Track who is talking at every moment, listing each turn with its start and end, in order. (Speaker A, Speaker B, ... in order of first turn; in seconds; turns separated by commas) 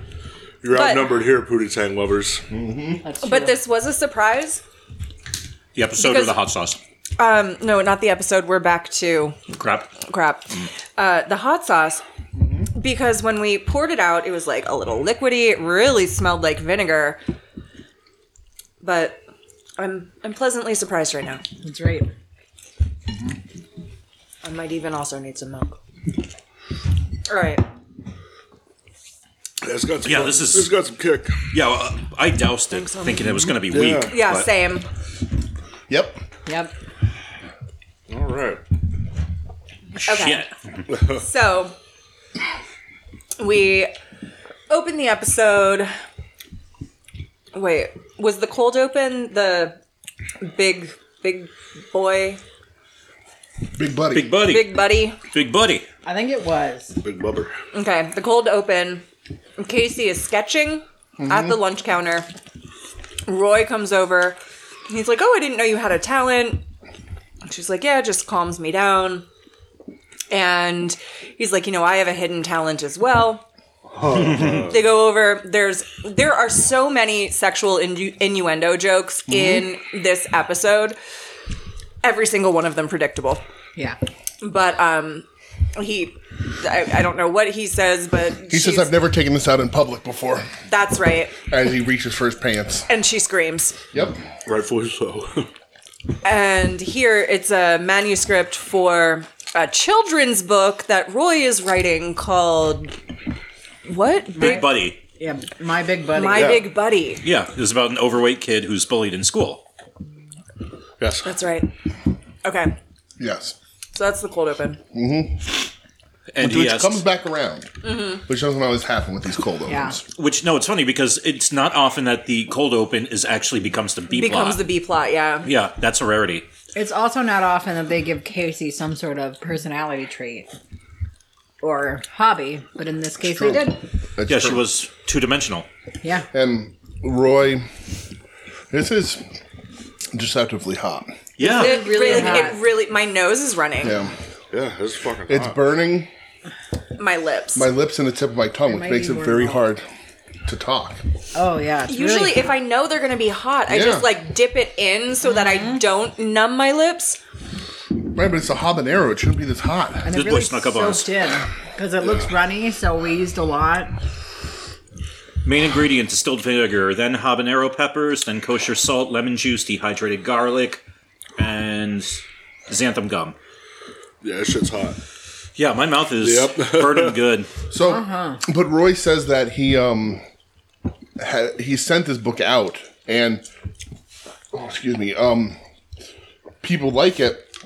Speaker A: 0.6-2.4, Speaker B: 0.7-1.2, Speaker C: 2.5-3.0, Speaker D: 3.0-3.6, Speaker B: 3.2-4.6, Speaker E: 5.7-6.8, Speaker B: 6.0-6.4, Speaker B: 7.2-9.4, Speaker E: 9.5-9.9, Speaker B: 10.0-12.0, Speaker B: 12.7-17.2, Speaker B: 18.8-19.2, Speaker B: 19.8-21.4, Speaker D: 21.6-22.1, Speaker B: 24.4-25.8, Speaker B: 27.3-27.6, Speaker A: 29.6-31.5, Speaker E: 30.0-30.7, Speaker E: 31.5-34.5, Speaker B: 32.7-34.9, Speaker A: 33.7-34.1, Speaker C: 35.9-36.2, Speaker D: 36.5-36.7, Speaker A: 38.1-38.6, Speaker B: 40.0-40.5, Speaker E: 40.0-40.5, Speaker A: 40.9-41.2, Speaker B: 41.1-41.7, Speaker B: 43.4-43.9, Speaker B: 44.7-45.9, Speaker B: 47.5-49.8, Speaker B: 50.4-52.4, Speaker C: 53.7-54.4, Speaker E: 54.1-55.9, Speaker B: 54.4-55.1, Speaker D: 56.0-57.0, Speaker A: 57.0-57.5, Speaker B: 57.7-59.0, Speaker B: 59.6-62.3, Speaker C: 61.2-61.6, Speaker B: 63.3-66.6, Speaker B: 67.5-69.2, Speaker B: 70.3-73.4, Speaker A: 73.9-74.8, Speaker B: 74.4-81.0, Speaker C: 79.3-79.7, Speaker B: 82.0-83.4, Speaker B: 84.4-88.9, Speaker C: 88.5-90.5, Speaker B: 90.7-91.4, Speaker C: 91.5-92.9, Speaker B: 92.9-93.8, Speaker C: 93.9-94.2, Speaker A: 94.5-95.5, Speaker B: 96.2-102.9, Speaker B: 103.8-104.7, Speaker E: 104.4-105.0, Speaker D: 104.4-104.6, Speaker D: 105.2-106.6, Speaker B: 106.1-107.2, Speaker C: 106.3-106.7, Speaker E: 107.2-109.6, Speaker A: 111.0-111.3, Speaker B: 111.2-111.7, Speaker B: 112.4-112.7, Speaker C: 113.2-113.5, Speaker B: 113.9-114.8, Speaker C: 114.9-115.7, Speaker E: 116.3-117.0, Speaker C: 116.4-120.0, Speaker B: 117.8-118.2, Speaker D: 119.7-120.0, Speaker E: 120.2-124.6, Speaker B: 124.1-125.5, Speaker E: 125.4-126.5, Speaker D: 126.7-130.5, Speaker D: 131.6-133.8, Speaker C: 133.3-134.6, Speaker E: 134.3-135.7, Speaker C: 136.3-137.7, Speaker C: 138.7-139.2, Speaker C: 140.1-141.2, Speaker E: 141.4-142.5, Speaker B: 141.4-143.9, Speaker D: 141.4-142.6, Speaker C: 143.8-144.1, Speaker A: 144.5-145.6, Speaker C: 145.3-146.1, Speaker B: 147.0-147.7, Speaker C: 147.5-149.8, Speaker D: 148.7-149.6, Speaker C: 150.4-151.0, Speaker D: 151.3-152.4, Speaker B: 151.9-157.2, Speaker C: 153.7-154.1, Speaker D: 155.2-155.8, Speaker C: 158.0-160.1, Speaker D: 160.0-163.9, Speaker E: 160.1-161.1, Speaker E: 165.4-170.8, Speaker E: 171.4-173.3, Speaker A: 174.2-175.0, Speaker E: 175.6-177.5, Speaker A: 176.2-177.2, Speaker C: 177.7-180.2, Speaker D: 177.8-178.4, Speaker C: 181.2-183.4, Speaker C: 184.5-185.6, Speaker C: 186.6-187.5